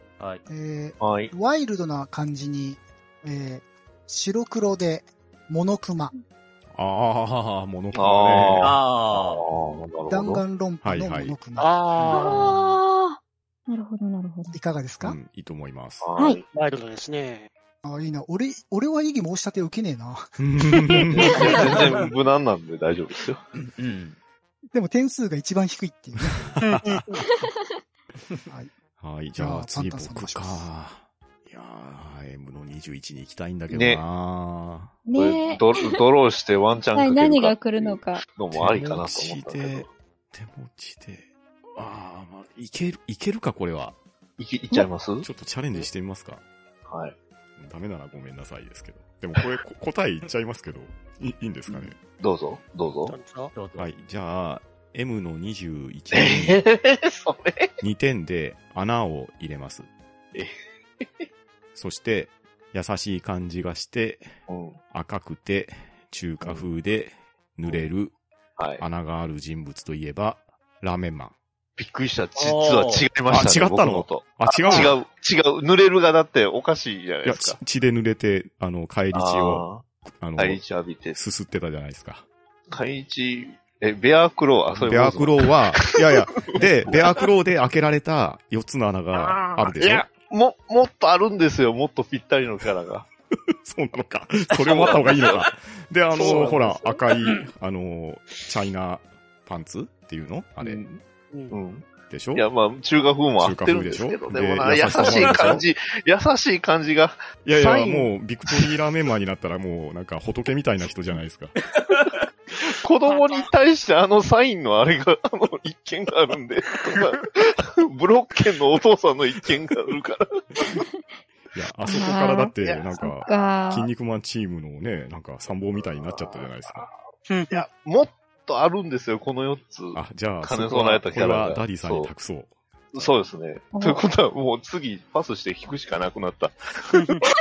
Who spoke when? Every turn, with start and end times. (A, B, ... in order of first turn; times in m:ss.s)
0:00.2-0:00.4 A
0:00.5-0:06.1 B
0:01.0-0:01.3 C
0:06.7-0:08.8 D
0:07.9-0:10.4 C
0:08.6-0:09.4 A
0:10.1-0:11.7 B
0:10.8-0:11.5 D
0:11.5-0:12.6 E
0:12.1-0:14.6 F
0:14.5-0:15.2 B
0:15.0-0:16.1 D
0:16.0-0:16.4 C
0:16.5-0:17.5 E
0:17.8-0:20.3 B
0:20.4-0:21.6 D
0:21.2-0:23.4 C
0:23.5-0:24.2 A
0:24.7-0:26.4 B
0:26.3-0:27.0 D
0:26.6-0:27.1 E
0:27.2-0:27.5 F
0:29.0-0:35.0 D
0:29.4-0:30.7 B
0:33.7-0:34.0 C
0:35.0-0:35.8 F
0:35.1-0:39.9 C
0:36.9-0:38.2 F
0:38.5-0:44.0 D
0:44.4-0:45.3 C
0:45.2-0:46.4 D
0:46.8-0:47.2 C
0:47.6-0:52.0 D
0:51.7-0:53.2 C
0:53.1-0:53.5 E
0:53.5-0:53.9 A
0:53.8-0:56.6 D
0:56.1-0:57.7 C
0:57.8-0:59.9 D
1:00.3-1:01.3 C
1:01.7-1:04.3 D
1:04.5-1:04.8 C
1:04.9-1:08.1 D
1:06.4-1:06.7 C
1:08.6-1:08.8 C
1:08.8-1:11.4 D
1:11.8-1:17.6 C
1:12.4-1:13.1 A
1:13.3-1:15.0 D
1:17.2-1:22.2 D
1:19.1-1:19.8 C
1:20.4-1:21.2 C
1:22.7-1:25.6 C
1:24.8-1:30.1 D
1:26.5-1:27.0 C
1:29.1-1:33.0 C
1:33.5-1:40.8 D
1:34.6-1:35.4 C
1:36.1-1:36.9 C
1:40.6-1:48.7 C
1:41.3-1:41.6 E
1:42.1-1:42.5 D
1:43.4-1:45.6 D
1:45.0-1:45.5 A
1:47.4-1:51.5 D
1:52.8-2:00.8 C
1:53.1-1:53.5 E
2:01.5-2:06.9 D
2:01.9-2:03.9 F
2:02.6-2:03.4 C
2:05.7-2:06.9 C
2:07.3-2:07.6 E
2:07.5-2:12.1 C
2:09.9-2:13.1 D
2:12.9-2:16.9 C
2:13.7-2:14.0 F